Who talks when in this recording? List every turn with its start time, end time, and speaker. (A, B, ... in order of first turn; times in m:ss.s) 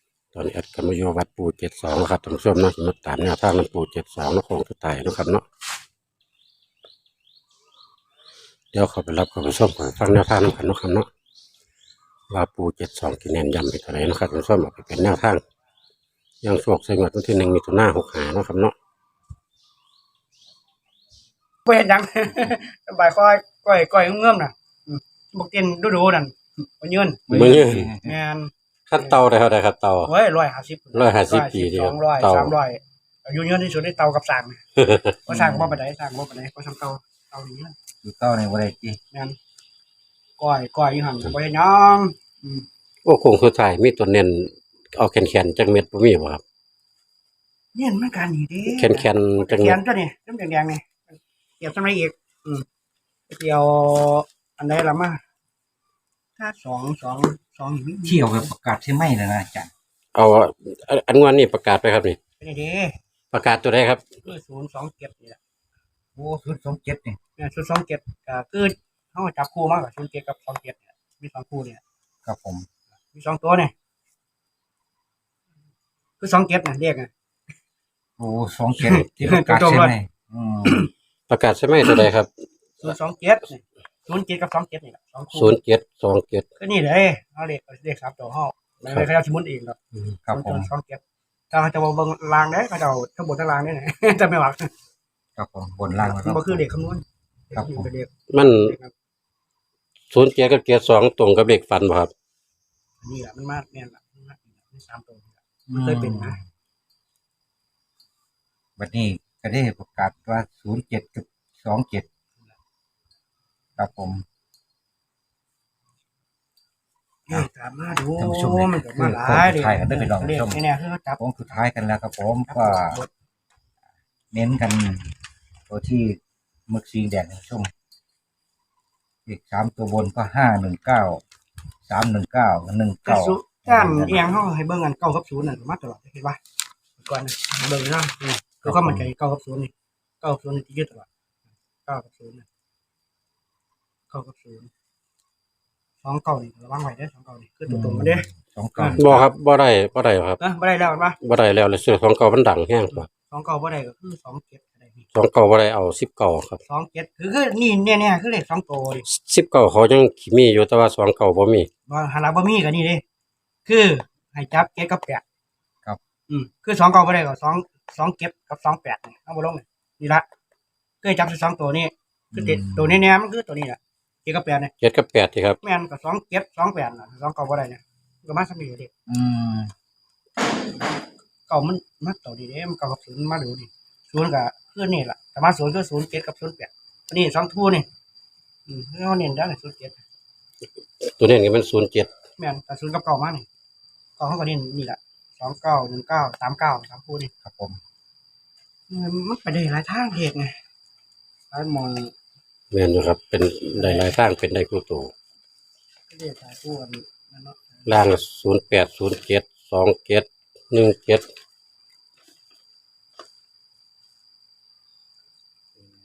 0:00.3-0:05.4 A
0:08.7-0:11.1 A
0:12.3-0:15.4 A
0:16.4-0:18.7 A
0:21.6-0:27.3 B
0:27.3-0:28.1 C
0:27.3-0:27.9 A
0:28.0-0:29.2 B
0:28.9-0:30.1 A
0:30.0-0:34.6 B
0:30.9-0:32.6 A
0:34.8-0:35.1 A
0:35.3-0:35.8 C
0:35.3-0:37.7 B
0:38.0-0:39.0 C
0:40.4-0:42.6 B
0:43.0-0:46.4 A
0:47.7-0:52.6 B
0:48.6-0:49.8 A
0:53.3-0:55.2 B
0:56.4-0:58.5 B
0:58.0-0:59.7 C
1:00.1-1:02.2 A
1:02.4-1:02.9 B
1:03.3-1:04.0 A
1:04.2-1:05.4 B
1:06.2-1:07.2 C
1:07.4-1:11.8 B
1:12.2-1:12.7 C
1:13.1-1:13.7 B
1:16.2-1:17.1 B
1:18.2-1:20.9 C
1:18.8-1:20.0 B
1:20.6-1:20.9 B
1:21.3-1:22.3 A
1:22.8-1:25.5 B
1:25.3-1:26.4 A
1:26.6-1:29.8 B
1:30.3-1:30.7 C
1:30.3-1:34.7 B
1:35.4-1:36.6 C
1:36.0-1:38.9 B
1:37.5-1:37.9 C
1:38.3-1:38.7 A
1:40.1-1:42.1 A
1:43.0-1:46.4 B
1:45.7-1:46.4 C
1:48.8-1:52.0 C
1:53.8-1:54.2 C
1:57.3-2:01.2 B
1:58.2-2:00.6 C
2:01.2-2:03.0 C
2:02.5-2:03.1 B
2:04.3-2:05.1 C
2:05.7-2:07.7 C
2:09.2-2:11.2 C
2:11.9-2:14.4 C
2:13.0-2:16.4 B
2:17.0-2:21.1 B
2:18.6-2:19.1 C
2:21.8-2:22.4 B
2:24.1-2:24.7 B
2:26.0-2:29.2 B
2:27.7-2:29.2 C
2:28.9-2:30.4 A
2:30.4-2:31.2 B
2:31.2-2:33.1 A
2:33.0-2:35.0 B
2:35.1-2:36.6 A
2:36.6-2:39.0 B
2:39.1-2:41.7 A
2:41.9-2:43.0 B
2:43.6-2:45.2 B
2:46.3-2:50.2 B
2:51.0-2:54.7 B
2:52.3-2:53.0 C
2:54.8-2:55.6 A
2:55.6-2:58.9 B
2:59.1-2:59.7 C
3:01.5-3:07.9 B
3:08.7-3:10.0 B
3:11.0-3:12.1 A
3:12.4-3:13.4 B
3:14.2-3:17.3 B
3:17.4-3:17.8 C
3:18.9-3:20.6 B
3:21.5-3:22.1 B
3:22.7-3:25.1 A
3:23.8-3:24.1 B
3:26.1-3:27.9 B
3:27.9-3:31.3 A